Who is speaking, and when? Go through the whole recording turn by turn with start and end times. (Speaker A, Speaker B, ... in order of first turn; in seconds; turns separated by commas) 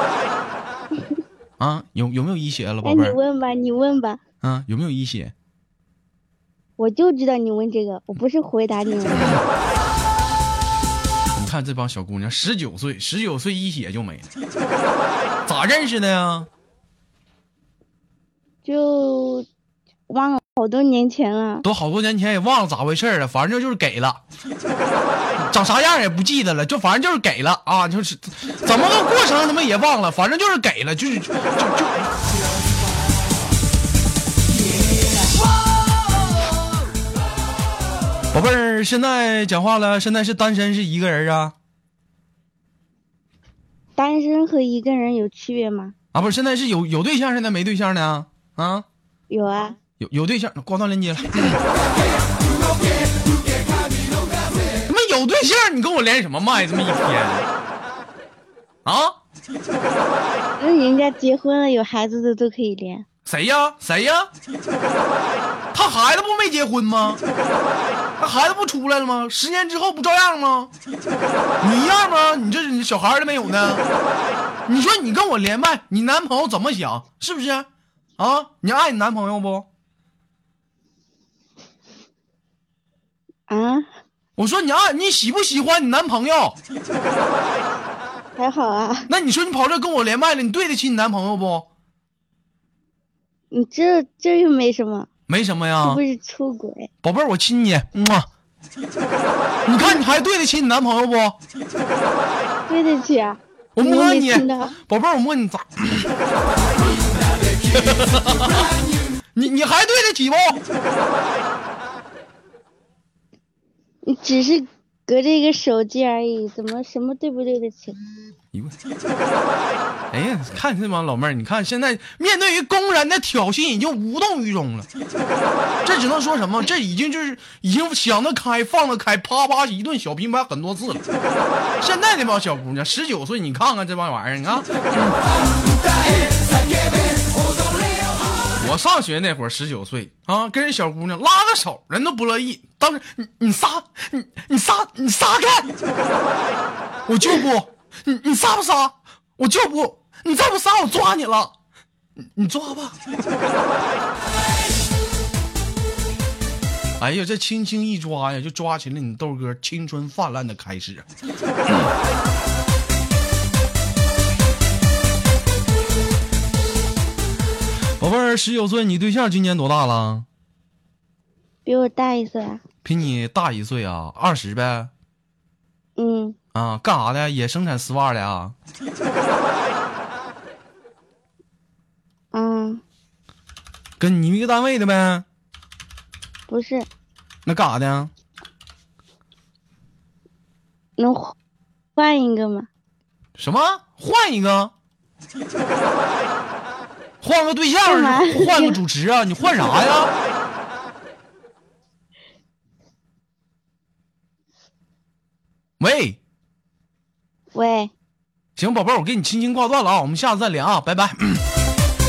Speaker A: 1.6-3.2, Speaker B: 2.8-4.2, Speaker A: 4.4-5.3, Speaker B: 6.8-9.4, Speaker A: 11.4-14.3, Speaker A: 15.5-16.5, Speaker B: 18.6-19.5, Speaker B: 20.1-21.7, Speaker A: 21.6-24.2, Speaker A: 25.4-32.1, Speaker A: 38.3-41.5, Speaker B: 44.0-46.0, Speaker A: 46.1-48.9, Speaker B: 49.3-49.8, Speaker A: 50.0-51.6, Speaker A: 54.9-57.5, Speaker A: 58.9-59.2, Speaker B: 60.6-63.0, Speaker A: 63.2-64.3, Speaker A: 65.7-67.2, Speaker A: 68.2-70.7, Speaker A: 71.6-73.8, Speaker A: 74.7-77.7, Speaker A: 78.2-79.7, Speaker B: 83.5-83.9, Speaker A: 84.4-86.6, Speaker B: 88.4-89.1, Speaker A: 89.1-91.7, Speaker B: 93.5-95.1, Speaker A: 95.3-96.0, Speaker B: 95.8-96.9, Speaker A: 97.0-98.3, Speaker A: 99.7-101.4, Speaker B: 102.7-104.8, Speaker A: 103.8-106.1, Speaker A: 107.7-108.7, Speaker A: 109.3-110.6, Speaker B: 114.1-118.0, Speaker A: 120.1-124.9, Speaker A: 125.8-131.0, Speaker A: 131.8-135.2, Speaker A: 138.6-145.7, Speaker A: 147.1-151.5, Speaker A: 152.2-153.0, Speaker A: 157.0-161.1, Speaker A: 168.0-170.3, Speaker B: 171.7-172.6, Speaker A: 172.8-174.9, Speaker B: 176.0-176.4, Speaker A: 176.5-178.6, Speaker B: 182.3-182.8, Speaker A: 184.0-185.2, Speaker B: 186.5-186.9, Speaker A: 187.5-188.1, Speaker B: 191.0-191.3, Speaker B: 192.0-192.7, Speaker A: 193.4-194.7, Speaker A: 197.2-200.1, Speaker B: 197.8-198.8, Speaker A: 205.8-206.2, Speaker B: 207.5-207.9, Speaker A: 208.6-211.4